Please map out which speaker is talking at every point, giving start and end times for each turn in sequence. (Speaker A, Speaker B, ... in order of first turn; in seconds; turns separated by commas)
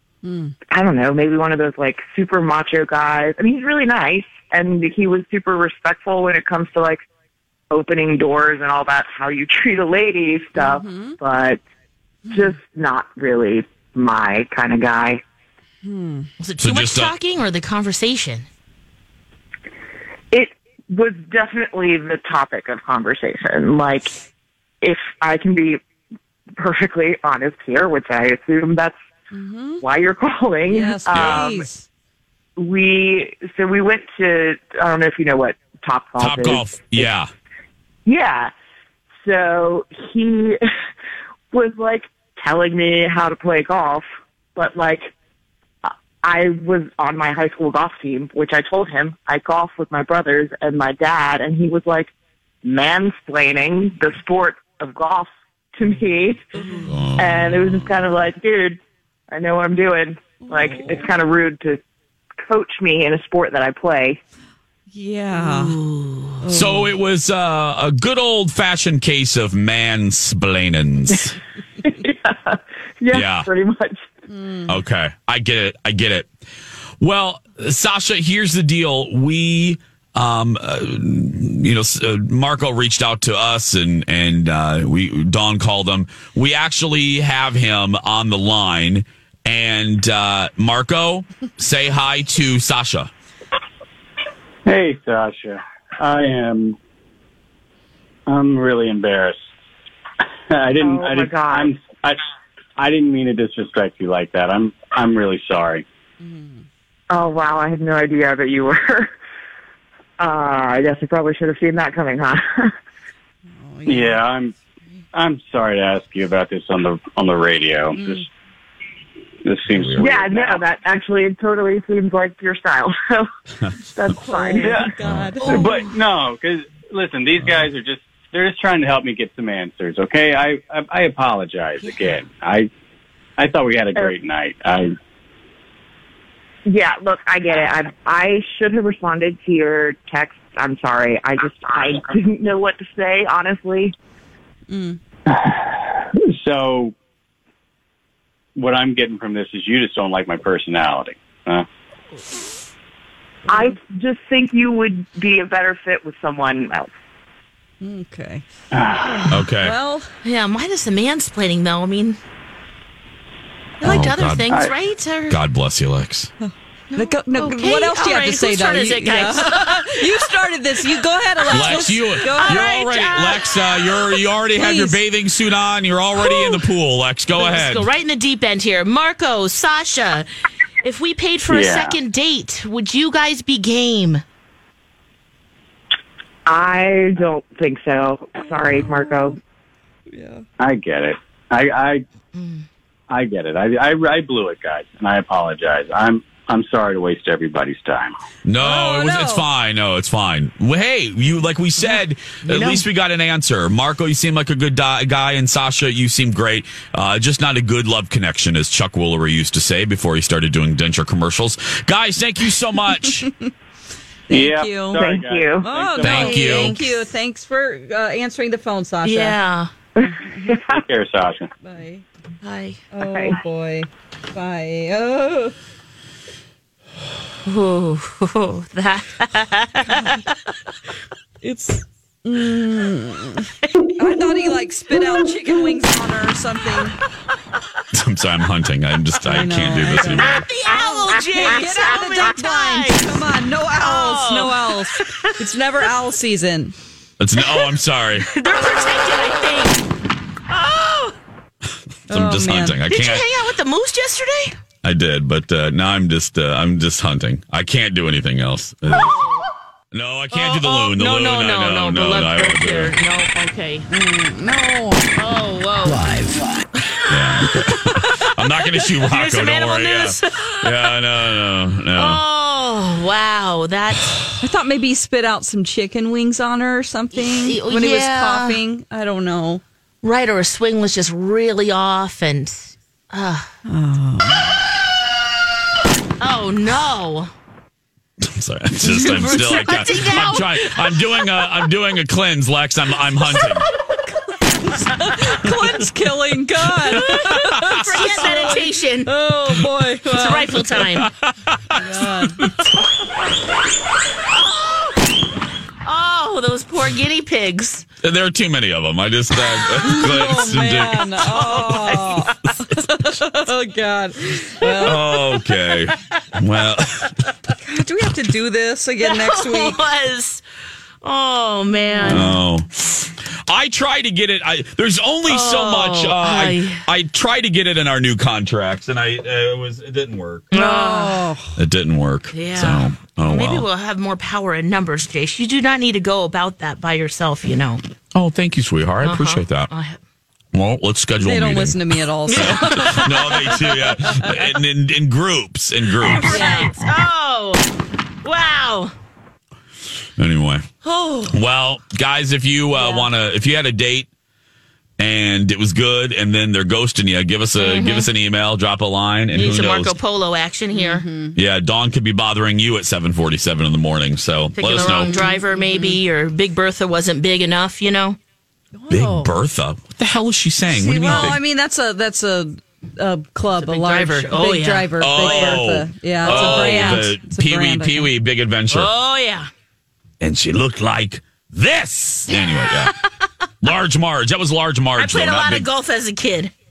Speaker A: 0.2-0.5, Speaker B: 0.7-7.0, Speaker B: 7.7-11.6, Speaker A: 10.5-11.2, Speaker B: 12.3-15.2, Speaker A: 15.8-16.3, Speaker C: 16.4-18.4, Speaker D: 16.6-17.1, Speaker B: 20.3-24.2, Speaker B: 24.8-25.8, Speaker B: 26.6-28.9, Speaker A: 29.3-29.8, Speaker B: 29.8-31.6, Speaker A: 30.6-31.9, Speaker D: 31.1-31.4, Speaker B: 32.6-37.1, Speaker D: 36.2-37.3, Speaker B: 38.0-38.5, Speaker B: 39.2-40.6, Speaker B: 41.5-44.0, Speaker B: 44.5-45.1, Speaker B: 45.8-52.1, Speaker B: 52.6-56.4, Speaker D: 56.9-58.0, Speaker B: 57.2-58.8, Speaker B: 59.3-61.8, Speaker A: 60.4-61.1, Speaker B: 62.5-64.2, Speaker A: 64.9-65.8, Speaker C: 65.3-66.4, Speaker A: 66.4-66.9, Speaker D: 66.5-71.4, Speaker B: 71.8-74.0, Speaker D: 73.1-73.5, Speaker A: 74.3-74.8, Speaker D: 74.7-76.3, Speaker D: 77.0-93.1, Speaker E: 94.7-96.8, Speaker E: 98.3-99.5, Speaker E: 100.5-102.2, Speaker B: 100.8-101.7, Speaker E: 102.8-105.8, Speaker A: 106.2-106.6, Speaker B: 107.1-109.1, Speaker B: 110.2-112.7, Speaker A: 113.6-114.2, Speaker E: 113.8-114.5, Speaker E: 115.1-118.2, Speaker A: 117.9-118.2, Speaker E: 119.4-120.6, Speaker D: 119.7-120.1, Speaker B: 120.0-123.2, Speaker B: 123.9-124.9, Speaker A: 124.3-125.9, Speaker E: 124.6-132.7, Speaker D: 125.0-125.3, Speaker E: 133.4-134.9, Speaker B: 136.7-143.9, Speaker A: 144.7-145.0, Speaker E: 145.3-146.9, Speaker E: 148.6-151.7, Speaker B: 153.5-156.9, Speaker A: 157.8-158.4, Speaker E: 158.7-159.3, Speaker C: 159.0-159.5, Speaker D: 159.3-159.8, Speaker A: 159.5-160.1, Speaker C: 160.2-162.2, Speaker C: 163.8-165.4, Speaker D: 163.8-164.6, Speaker E: 164.5-164.7, Speaker D: 165.3-166.3, Speaker A: 166.4-172.9, Speaker C: 166.9-170.3, Speaker D: 171.5-177.8, Speaker C: 171.5-174.0, Speaker A: 174.5-175.0, Speaker C: 176.2-176.7, Speaker C: 177.3-180.3, Speaker C: 180.8-184.2, Speaker E: 181.5-181.9, Speaker B: 186.4-189.4, Speaker A: 188.4-189.4, Speaker A: 190.1-190.4, Speaker E: 190.6-192.0, Speaker C: 192.3-192.6, Speaker E: 193.1-198.2, Speaker D: 198.4-213.2, Speaker A: 198.6-199.4, Speaker C: 202.4-202.8, Speaker A: 213.1-213.5, Speaker E: 214.3-216.6, Speaker A: 214.3-219.4, Speaker B: 214.9-215.7, Speaker D: 216.0-216.8, Speaker C: 216.1-217.1, Speaker C: 219.0-219.7, Speaker A: 220.0-220.6, Speaker B: 220.5-220.7, Speaker E: 220.7-221.5, Speaker A: 221.6-222.0, Speaker C: 222.4-222.8, Speaker A: 222.9-225.5, Speaker B: 223.0-223.4, Speaker C: 227.4-230.3, Speaker A: 231.4-233.4, Speaker A: 233.9-237.0, Speaker D: 238.0-240.4, Speaker A: 239.2-246.7, Speaker C: 240.2-243.2, Speaker C: 243.8-245.3, Speaker D: 247.2-248.3, Speaker C: 247.4-249.8, Speaker C: 250.5-251.2, Speaker A: 252.1-252.8, Speaker D: 252.1-253.3, Speaker C: 252.8-254.6, Speaker D: 254.8-259.2, Speaker C: 258.9-259.4, Speaker D: 259.9-263.0, Speaker C: 260.3-263.9, Speaker A: 263.9-265.1, Speaker C: 265.1-266.1, Speaker D: 267.1-272.2, Speaker C: 269.0-271.0, Speaker C: 271.9-274.2, Speaker A: 274.4-279.6, Speaker C: 277.1-278.6, Speaker C: 280.0-283.5, Speaker A: 283.6-284.6, Speaker C: 286.2-287.3, Speaker D: 288.2-293.7, Speaker C: 288.9-291.4, Speaker A: 288.9-289.6, Speaker A: 294.4-300.8, Speaker C: 296.8-299.1, Speaker D: 297.7-298.3, Speaker C: 300.0-301.1, Speaker D: 300.9-302.7, Speaker A: 301.8-302.5, Speaker C: 304.4-305.0, Speaker C: 305.8-307.9, Speaker D: 308.0-311.1, Speaker A: 309.8-315.0, Speaker C: 311.1-312.5, Speaker C: 314.6-315.8, Speaker D: 314.8-317.1, Speaker A: 317.6-319.8, Speaker C: 319.0-320.4, Speaker C: 321.0-322.4, Speaker A: 321.9-322.3, Speaker D: 322.0-322.7, Speaker D: 323.5-330.5, Speaker C: 325.3-326.8, Speaker C: 330.5-331.3, Speaker A: 330.5-331.6, Speaker D: 331.6-333.7, Speaker C: 332.3-337.8, Speaker D: 338.1-339.7, Speaker C: 339.0-340.0, Speaker D: 340.5-346.5, Speaker A: 341.2-343.0, Speaker C: 342.3-343.8, Speaker C: 346.0-347.6, Speaker A: 346.3-346.8, Speaker C: 348.2-348.9, Speaker D: 350.2-350.6, Speaker C: 350.8-351.4, Speaker D: 351.3-354.1, Speaker A: 352.8-353.1, Speaker D: 355.0-359.9, Speaker C: 357.6-358.1, Speaker C: 359.3-361.1, Speaker A: 360.7-361.4, Speaker D: 361.3-365.2, Speaker C: 364.5-368.2, Speaker A: 364.8-366.0, Speaker A: 368.7-369.3, Speaker D: 368.9-371.4, Speaker A: 370.7-378.1, Speaker C: 373.6-375.6, Speaker D: 375.0-378.9, Speaker C: 376.2-377.1, Speaker C: 378.7-379.5, Speaker D: 380.2-382.9, Speaker C: 382.3-383.0, Speaker D: 383.6-385.7, Speaker C: 385.0-386.5